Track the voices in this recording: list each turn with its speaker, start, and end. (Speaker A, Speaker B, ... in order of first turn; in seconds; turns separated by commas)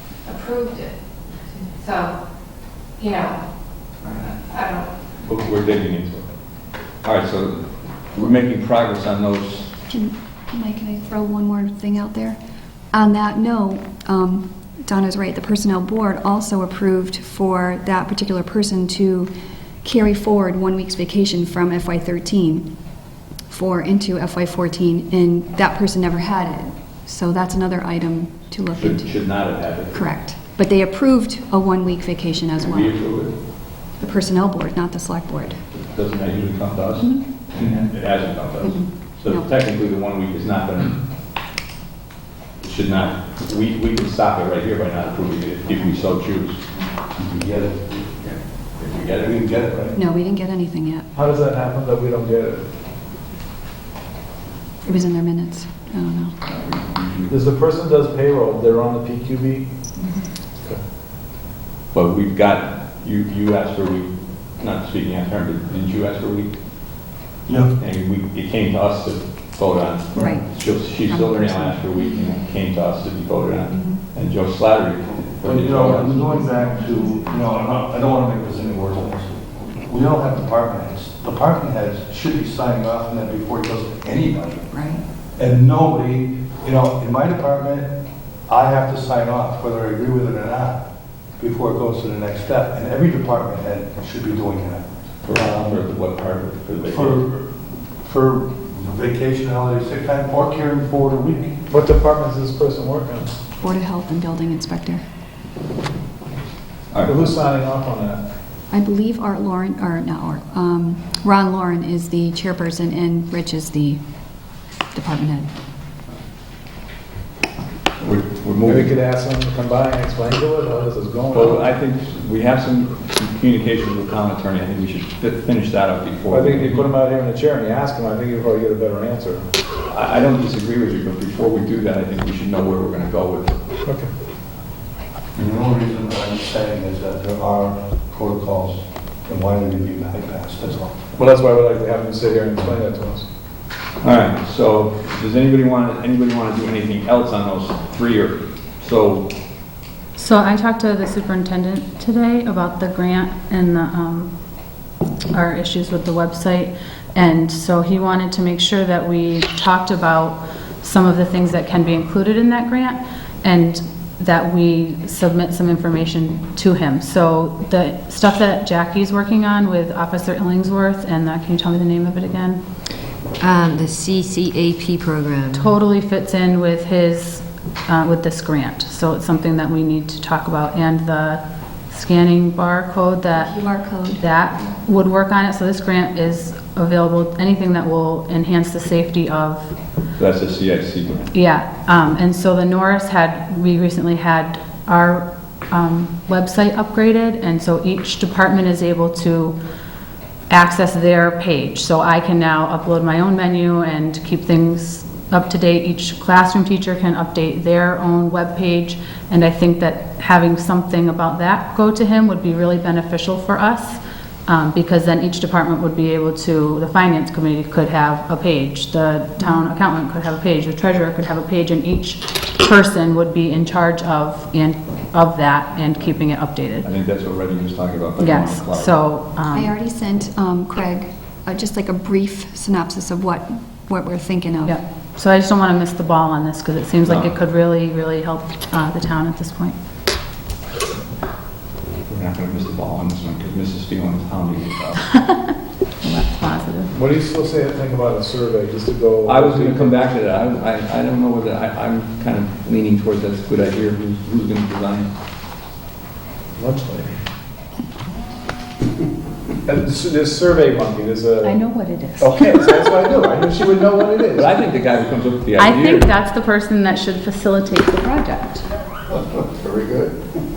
Speaker A: 0.2-1.0, Speaker A: 1.6-2.2, Speaker A: 3.0-3.4, Speaker A: 4.5-4.9, Speaker B: 5.2-6.3, Speaker B: 7.0-9.7, Speaker C: 9.9-12.4, Speaker C: 12.9-19.3, Speaker C: 19.8-22.7, Speaker C: 23.5-29.3, Speaker B: 28.7-30.1, Speaker C: 29.9-32.9, Speaker B: 32.6-33.3, Speaker C: 34.0-35.6, Speaker B: 35.7-41.0, Speaker C: 37.0-37.2, Speaker C: 38.6-39.5, Speaker B: 42.6-46.6, Speaker D: 47.2-48.0, Speaker B: 47.9-49.9, Speaker D: 49.2-50.0, Speaker C: 50.0-51.1, Speaker E: 51.1-52.7, Speaker C: 54.9-56.4, Speaker B: 56.5-57.4, Speaker E: 57.3-59.7, Speaker C: 60.0-60.3, Speaker B: 61.9-66.5, Speaker D: 67.5-67.7, Speaker B: 67.8-76.3, Speaker C: 70.2-71.9, Speaker D: 75.4-84.7, Speaker C: 76.0-77.2, Speaker C: 84.7-85.0, Speaker D: 85.4-87.9, Speaker D: 88.5-90.8, Speaker D: 91.4-95.8, Speaker B: 95.2-97.2, Speaker D: 96.9-97.5, Speaker D: 98.0-101.6, Speaker E: 101.7-103.4, Speaker C: 103.6-105.0, Speaker B: 106.9-107.3, Speaker E: 107.0-108.2, Speaker C: 108.7-114.0, Speaker C: 114.9-115.5, Speaker B: 118.0-118.9, Speaker E: 118.6-121.7, Speaker B: 121.3-126.8, Speaker E: 126.3-129.4, Speaker B: 129.9-133.6, Speaker D: 135.4-141.1, Speaker E: 141.2-143.2, Speaker B: 144.0-149.3, Speaker F: 150.2-154.3, Speaker F: 155.3-172.6, Speaker G: 173.4-175.7, Speaker F: 175.5-183.6, Speaker C: 183.3-184.3, Speaker F: 184.2-189.7, Speaker B: 190.2-191.3, Speaker F: 191.3-199.6, Speaker F: 200.5-226.9, Speaker B: 226.8-229.0, Speaker F: 228.2-229.7, Speaker C: 229.5-234.8, Speaker F: 234.6-239.8, Speaker B: 237.1-237.3, Speaker B: 242.1-245.1, Speaker F: 246.0-246.9, Speaker E: 246.9-250.0, Speaker B: 249.2-255.1, Speaker E: 256.6-257.2, Speaker E: 259.7-261.6, Speaker F: 261.4-262.7, Speaker E: 262.2-264.5, Speaker B: 264.3-266.1, Speaker F: 265.6-268.7, Speaker B: 269.6-270.1